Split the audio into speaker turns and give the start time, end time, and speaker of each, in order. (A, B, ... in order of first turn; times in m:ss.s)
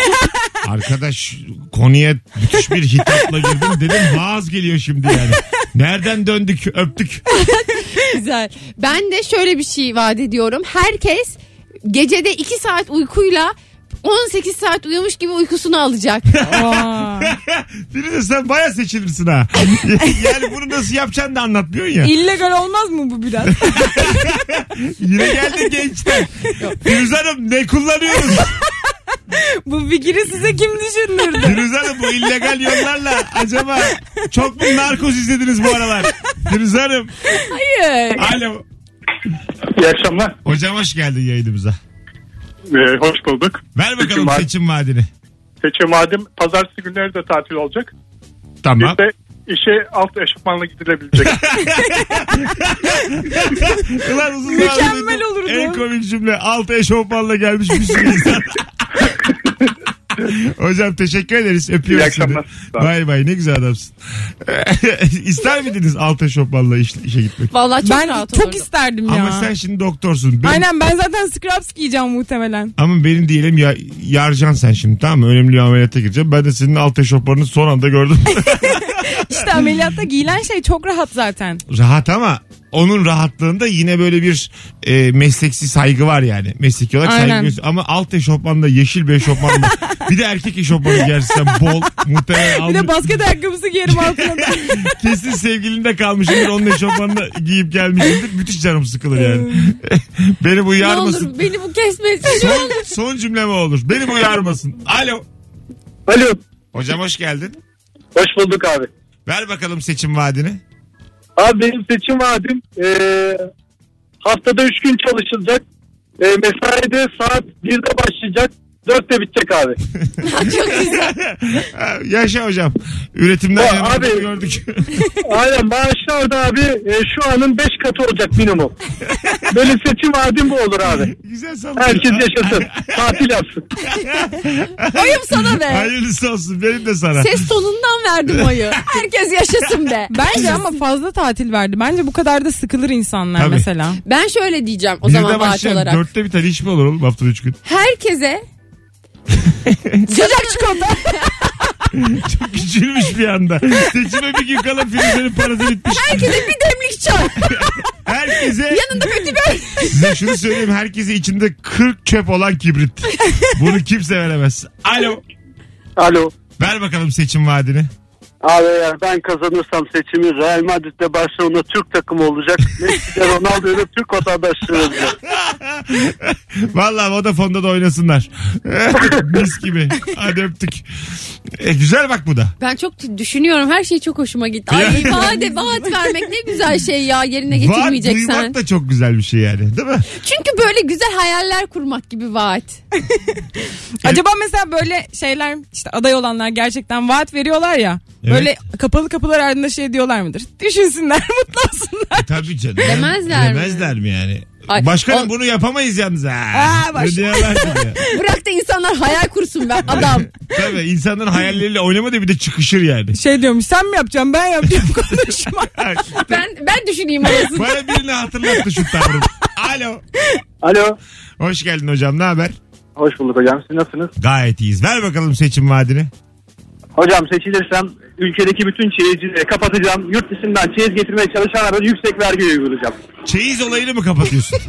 0:00.6-0:07.3 A
0:07.3-0:16.3 B
0:16.3-0:22.1 A
0:16.4-0:17.3 C
0:22.0-0:24.2 C
0:23.5-0:28.5 A
0:29.3-0:31.6 C
0:31.4-0:37.3 A
0:37.5-0:38.4 B
0:38.2-0:38.6 A
0:39.8-0:40.4 D
0:40.4-0:41.8 A
0:42.7-0:44.4 D
0:43.8-0:45.1 A
0:45.6-0:47.9 D
0:48.6-0:49.0 A
0:48.8-0:51.5 D
0:51.2-0:59.1 A
0:54.5-0:55.8 C
1:00.2-1:07.5 A
1:01.9-1:02.9 D
1:07.5-1:08.7 B
1:07.8-1:09.5 C
1:09.1-1:10.6 A
1:10.4-1:12.7 C
1:12.8-1:19.6 A
1:18.7-1:21.6 C
1:21.7-1:33.1 A
1:27.0-1:27.5 C
1:32.4-1:35.0 C
1:33.9-1:41.3 A
1:39.2-1:39.6 C
1:40.8-1:42.9 B
1:42.2-1:45.2 A
1:46.1-1:46.4 D
1:46.7-1:47.6 A
1:48.2-1:48.8 D
1:49.3-1:50.6 A
1:51.4-1:53.4 D
1:54.2-1:55.6 D
1:56.2-1:59.8 D
2:00.2-2:01.1 B
2:00.7-2:05.0 A
2:03.6-2:04.2 D
2:05.2-2:08.7 D
2:09.1-2:09.6 A
2:09.5-2:11.1 D
2:10.9-2:13.2 A
2:11.8-2:13.6 D
2:13.9-2:17.5 A
2:14.9-2:15.9 B
2:17.2-2:20.7 B
2:18.4-2:19.0 A
2:20.1-2:24.0 C
2:23.4-2:23.7 A
2:24.0-2:26.0 B
2:25.0-2:27.6 A
2:27.6-2:28.4 B
2:29.5-2:30.0 A
2:30.1-2:31.5 B
2:30.2-2:31.1 C
2:31.9-2:36.4 A
2:35.9-2:37.8 B
2:37.5-2:39.1 A
2:38.7-2:40.3 B
2:39.9-2:45.2 A
2:46.0-2:46.3 E
2:46.6-2:47.9 A
2:48.4-2:55.2 E
2:55.1-3:00.9 A
3:01.5-3:02.6 A
3:02.6-3:08.5 B
3:04.7-3:05.4 A
3:04.8-3:06.0 C
3:07.5-3:10.1 A
3:10.2-3:12.8 B
3:13.1-3:22.3 C
3:18.2-3:18.5 A
3:22.2-3:28.0 A
3:22.8-3:23.9 B
3:24.7-3:25.3 B
3:26.5-3:27.8 C
3:28.1-3:30.3 B
3:29.9-3:33.2 A
3:33.1-3:35.8 C
3:35.7-3:36.4 A
3:36.2-3:37.7 B
3:37.5-3:40.0 A
3:41.4-3:42.6 A
3:43.0-3:44.0 D
3:44.2-3:46.1 A
3:53.2-3:54.6 A